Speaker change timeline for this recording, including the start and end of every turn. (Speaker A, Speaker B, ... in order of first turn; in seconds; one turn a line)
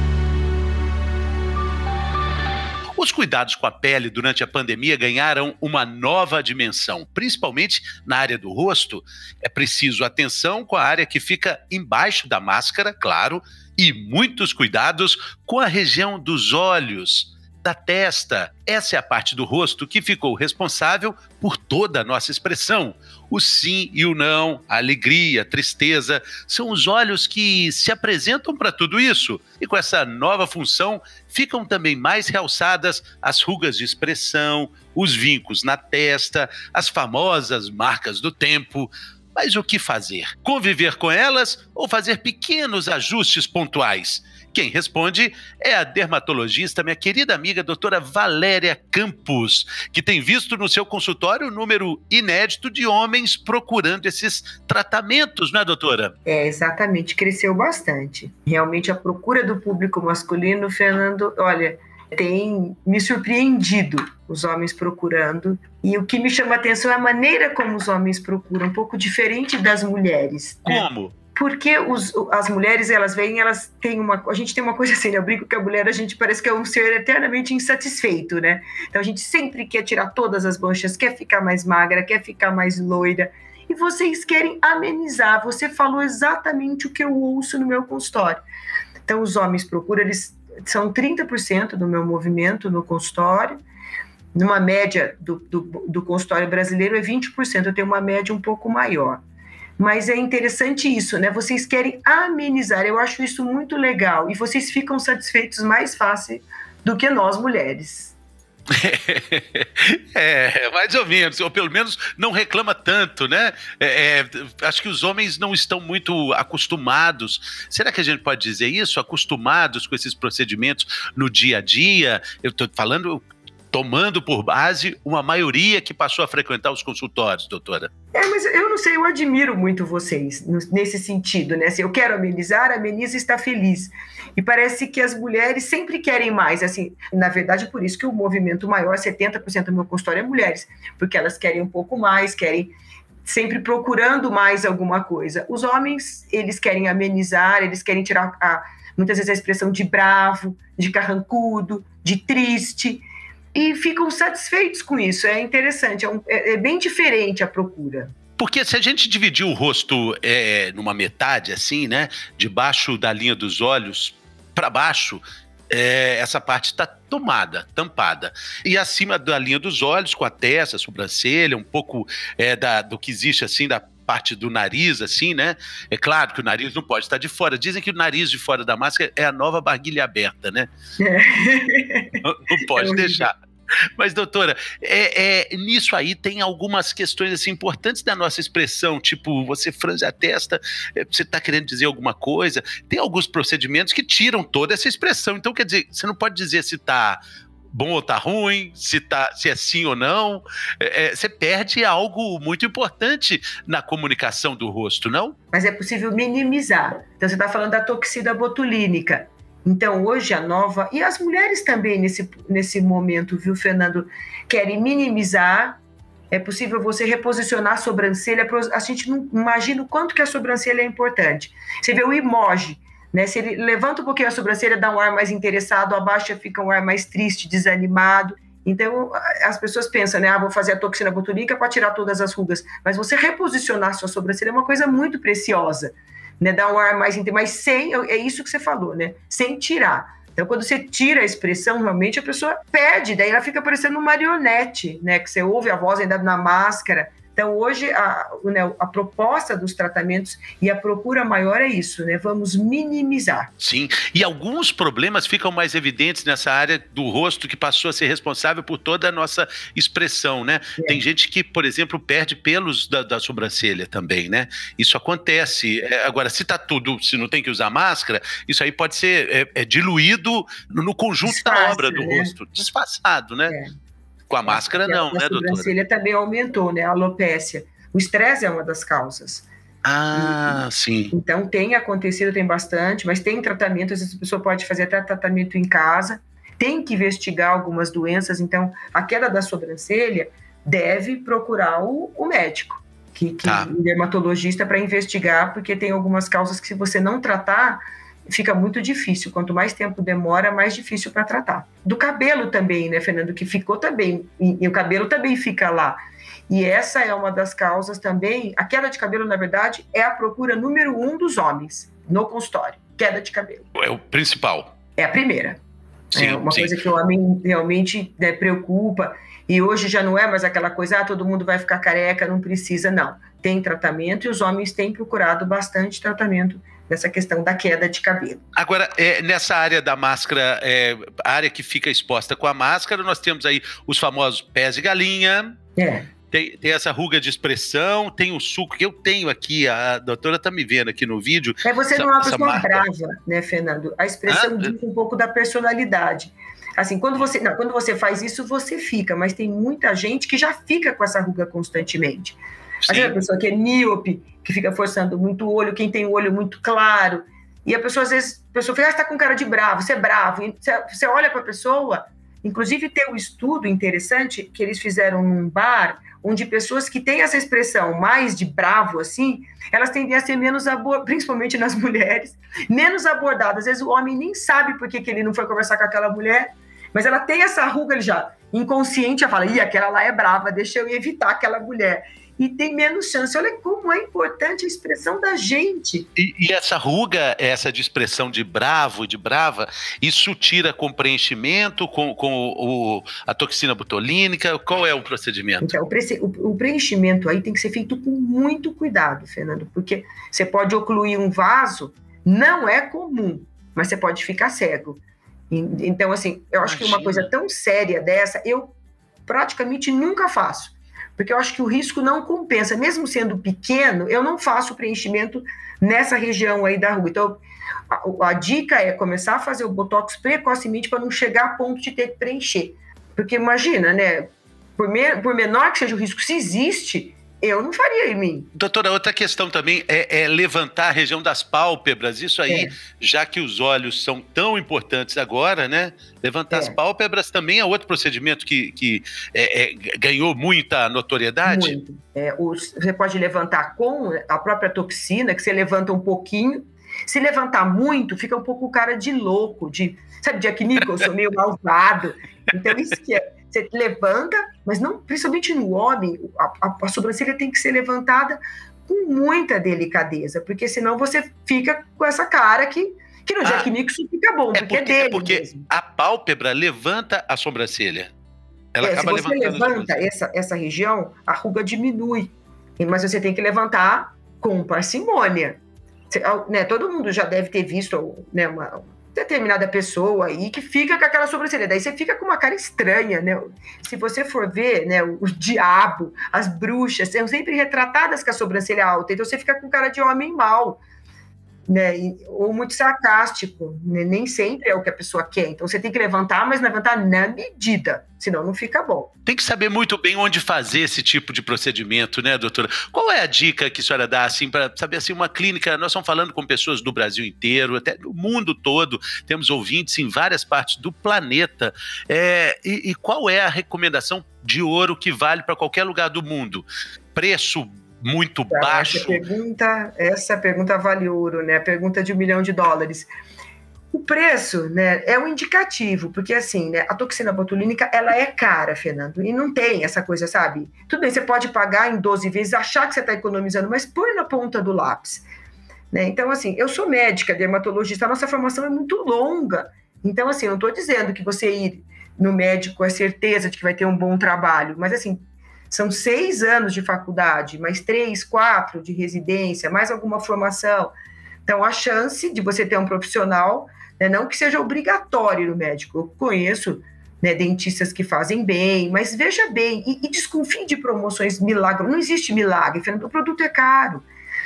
Speaker A: 3.0-56.1
Speaker B: 56.3-88.4
Speaker A: 70.7-71.1
Speaker B: 89.1-93.6
Speaker B: 94.3-99.2
Speaker B: 99.8-108.2
Speaker A: 108.8-127.9
Speaker B: 128.1-158.1
Speaker A: 158.4-180.7
Speaker B: 181.0-182.2
Speaker A: 182.2-183.4
Speaker B: 182.8-183.3
Speaker A: 184.0-197.2
Speaker A: 197.7-205.3
Speaker B: 205.5-215.8
Speaker B: 216.3-253.5
Speaker A: 253.6-273.5
Speaker B: 271.2-272.3
Speaker A: 274.3-275.7
Speaker B: 274.4-279.4
Speaker A: 279.8-281.1
Speaker B: 280.1-306.0
Speaker A: 293.4-293.7
Speaker B: 306.5-313.7
Speaker A: 313.8-314.7
Speaker B: 315.0-315.6
Speaker A: 316.1-316.7
Speaker B: 316.1-328.4
Speaker A: 328.6-335.6
Speaker B: 335.8-336.1
Speaker A: 336.3-342.8
Speaker B: 341.6-352.4
Speaker A: 344.3-344.7
Speaker A: 352.8-353.2
Speaker B: 352.9-386.1
Speaker A: 386.1-395.8
Speaker B: 395.6-408.8
Speaker A: 406.6-407.3
Speaker B: 409.2-428.5
Speaker A: 428.5-441.8
Speaker B: 436.5-436.8
Speaker B: 441.4-465.7
Speaker A: 463.4-463.7
Speaker A: 464.6-468.1
Speaker A: 468.7-470.1
Speaker B: 468.8-490.8
Speaker B: 491.7-499.1
Speaker A: 499.2-519.2
Speaker B: 518.5-523.1
Speaker B: 523.9-535.2
Speaker B: 535.9-550.9
Speaker B: 551.5-564.0